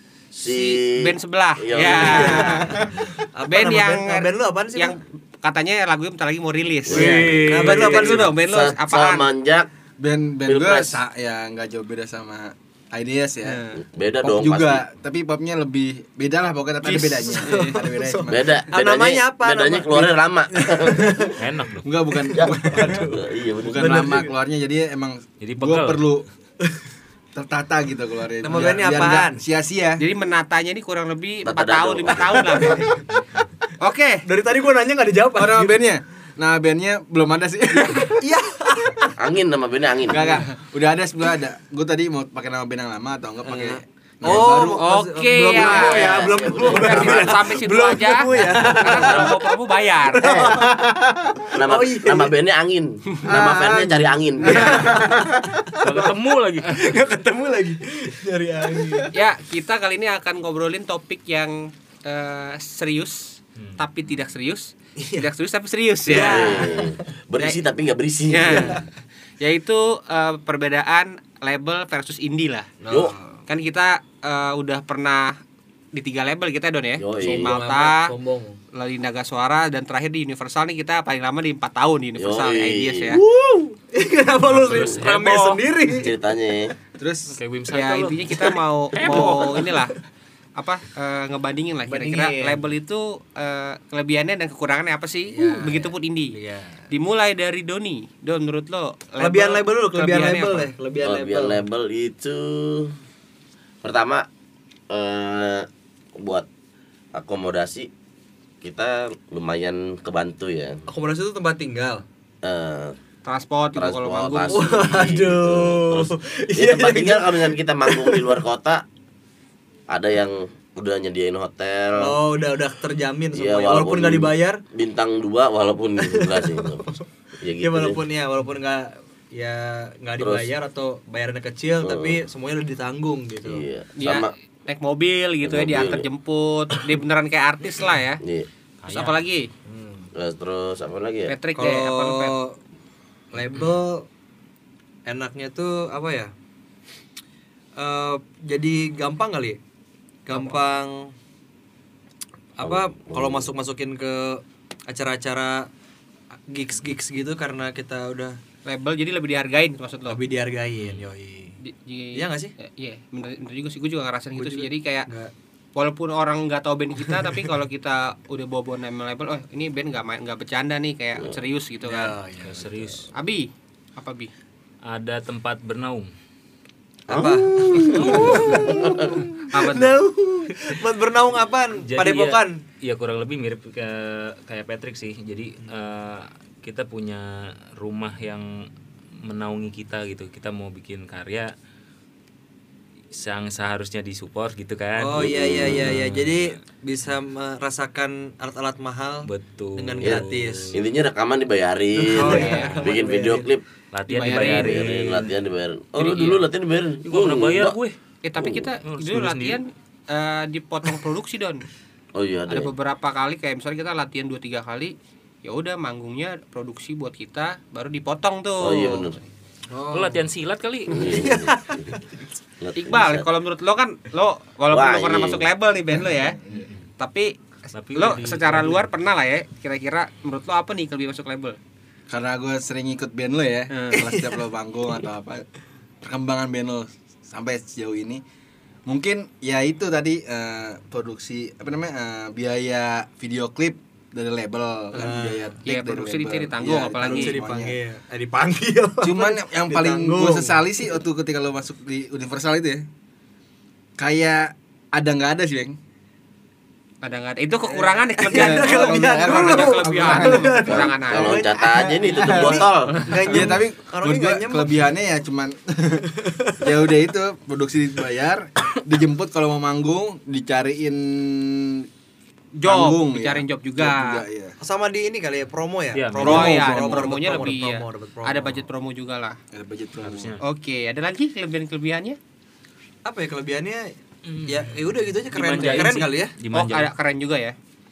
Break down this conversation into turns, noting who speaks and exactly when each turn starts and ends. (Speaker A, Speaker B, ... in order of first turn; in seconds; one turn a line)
Speaker A: 0.3-2.8
Speaker B: 0.4-2.9
Speaker C: 1.9-5.0
Speaker B: 3.5-9.3
Speaker A: 6.9-7.5
Speaker C: 6.9-8.3
Speaker D: 6.9-8.1
Speaker A: 8.1-9.7
Speaker E: 10.0-13.6
Speaker A: 10.4-11.0
Speaker C: 13.4-13.8
Speaker A: 13.8-14.8
Speaker E: 14.2-18.6
Speaker B: 16.8-17.8
Speaker C: 17.3-20.2
Speaker A: 18.3-21.3
Speaker E: 20.6-21.3
Speaker C: 20.8-21.2
Speaker D: 21.4-21.9
Speaker E: 21.8-26.2
Speaker A: 22.3-24.2
Speaker C: 22.3-23.2
Speaker C: 23.8-24.3
Speaker D: 25.4-26.0
Speaker E: 27.3-30.0
Speaker C: 28.4-29.4
Speaker B: 30.0-33.0
Speaker A: 31.4-32.6
Speaker C: 32.6-32.9
Speaker B: 33.8-34.2
Speaker C: 34.2-35.8
Speaker E: 35.3-38.2
Speaker C: 38.1-39.1
Speaker A: 39.2-40.4
Speaker E: 40.1-44.9
Speaker C: 43.4-49.5
Speaker B: 44.8-50.3
Speaker A: 45.4-47.5
Speaker A: 48.6-49.4
Speaker C: 50.0-52.3
Speaker A: 50.2-50.7
Speaker E: 50.8-51.3
Speaker A: 51.5-55.0
Speaker C: 53.2-56.0
Speaker E: 53.4-53.8
Speaker E: 54.5-55.9
Speaker D: 55.7-56.9
Speaker C: 56.6-59.1
Speaker E: 58.8-59.0
Speaker B: 59.1-66.7
Speaker C: 65.0-65.3
Speaker C: 66.1-67.0
Speaker A: 66.1-68.9
Speaker B: 68.3-68.9
Speaker B: 69.4-72.7
Speaker C: 72.8-73.4
Speaker A: 72.9-73.1
Speaker B: 73.5-75.4
Speaker B: 75.9-78.1
Speaker A: 77.0-77.6
Speaker C: 77.2-78.6
Speaker B: 78.7-83.2
Speaker A: 82.2-83.8
Speaker C: 83.9-86.1
Speaker D: 84.4-85.7
Speaker A: 85.9-86.7
Speaker E: 86.9-87.4
Speaker D: 87.3-88.5
Speaker B: 87.7-90.0
Speaker A: 89.0-89.5
Speaker C: 89.0-89.7
Speaker B: 90.6-96.3
Speaker C: 91.8-92.6
Speaker C: 95.3-96.9
Speaker B: 96.9-100.7
Speaker C: 99.2-101.7
Speaker A: 101.0-102.9
Speaker A: 103.8-104.2
Speaker A: 104.9-106.5
Speaker A: 107.1-107.9
Speaker A: 108.6-110.8
Speaker C: 110.9-112.0
Speaker A: 112.4-113.0
Speaker B: 113.2-114.8
Speaker A: 113.7-118.8
Speaker C: 114.5-118.4
Speaker A: 119.9-122.2
Speaker C: 122.0-124.6
Speaker A: 123.3-128.0
Speaker C: 126.0-127.0
Speaker C: 127.6-133.6
Speaker A: 130.2-130.5
Speaker A: 131.8-132.2
Speaker A: 133.4-134.3
Speaker B: 134.0-138.2
Speaker A: 135.4-136.1
Speaker A: 138.2-138.5
Speaker D: 138.8-139.2
Speaker B: 138.9-139.5
Speaker C: 139.6-140.1
Speaker A: 140.1-141.3
Speaker B: 141.3-142.4
Speaker C: 141.6-142.6
Speaker C: 143.3-144.1
Speaker C: 145.1-146.3
Speaker C: 147.8-149.6
Speaker C: 150.2-151.1
Speaker C: 152.6-155.7
Speaker A: 152.6-153.5
Speaker C: 156.5-158.4
Speaker B: 158.7-160.2
Speaker C: 160.1-161.6
Speaker B: 161.6-165.1
Speaker C: 162.1-162.5
Speaker C: 164.3-165.3
Speaker B: 165.7-172.1
Speaker C: 167.1-167.5
Speaker C: 171.8-173.0
Speaker D: 172.4-173.1
Speaker B: 173.1-174.3
Speaker D: 174.8-176.1
Speaker A: 177.1-179.4
Speaker C: 177.1-182.6
Speaker B: 177.9-178.9
Speaker B: 179.5-179.9
Speaker D: 181.8-188.7
Speaker D: 189.2-191.5
Speaker D: 193.1-196.6
Speaker C: 195.0-200.8
Speaker A: 195.2-195.9
Speaker D: 199.2-200.8
Speaker A: 200.0-203.6
Speaker C: 201.9-203.5
Speaker B: 202.3-202.7
Speaker D: 203.9-205.3
Speaker B: 204.1-204.8
Speaker A: 204.2-207.8
Speaker D: 206.0-206.4
Speaker D: 207.0-207.9
Speaker B: 208.2-211.6
Speaker A: 208.4-208.7
Speaker D: 208.8-209.6
Speaker A: 212.1-212.7
Speaker B: 212.5-219.2
Speaker A: 218.6-219.2
Speaker C: 219.7-220.2
Speaker E: 219.8-220.1
Speaker D: 219.9-221.4
Speaker A: 220.9-222.0
Speaker C: 220.9-222.3
Speaker A: 222.6-223.3
Speaker B: 222.8-226.4
Speaker A: 224.7-225.5
Speaker E: 226.1-226.7
Speaker B: 227.0-227.4
Speaker D: 227.7-228.9
Speaker B: 227.9-231.6
Speaker E: 232.1-235.5
Speaker B: 233.7-234.0
Speaker C: 233.9-234.4
Speaker E: 236.0-238.2
Speaker E: 238.9-247.8
Speaker C: 244.9-245.6
Speaker B: 245.6-247.4
Speaker C: 246.9-250.7
Speaker E: 249.0-252.8
Speaker E: 254.0-255.8
Speaker B: 257.0-261.5
Speaker C: 257.7-264.8
Speaker E: 258.3-260.7
Speaker A: 260.6-262.9
Speaker E: 262.1-262.6
Speaker B: 262.9-263.3
Speaker E: 263.3-271.9
Speaker C: 266.0-266.7
Speaker B: 272.6-274.2
Speaker E: 272.6-274.5
Speaker C: 274.6-278.6
Speaker D: 275.9-276.6
Speaker B: 276.2-279.4
Speaker E: 276.3-277.1
Speaker E: 279.5-280.3
Speaker D: 280.0-280.4
Speaker B: 280.4-282.2
Speaker C: 283.0-286.3
Speaker D: 284.2-286.9
Speaker B: 285.6-287.6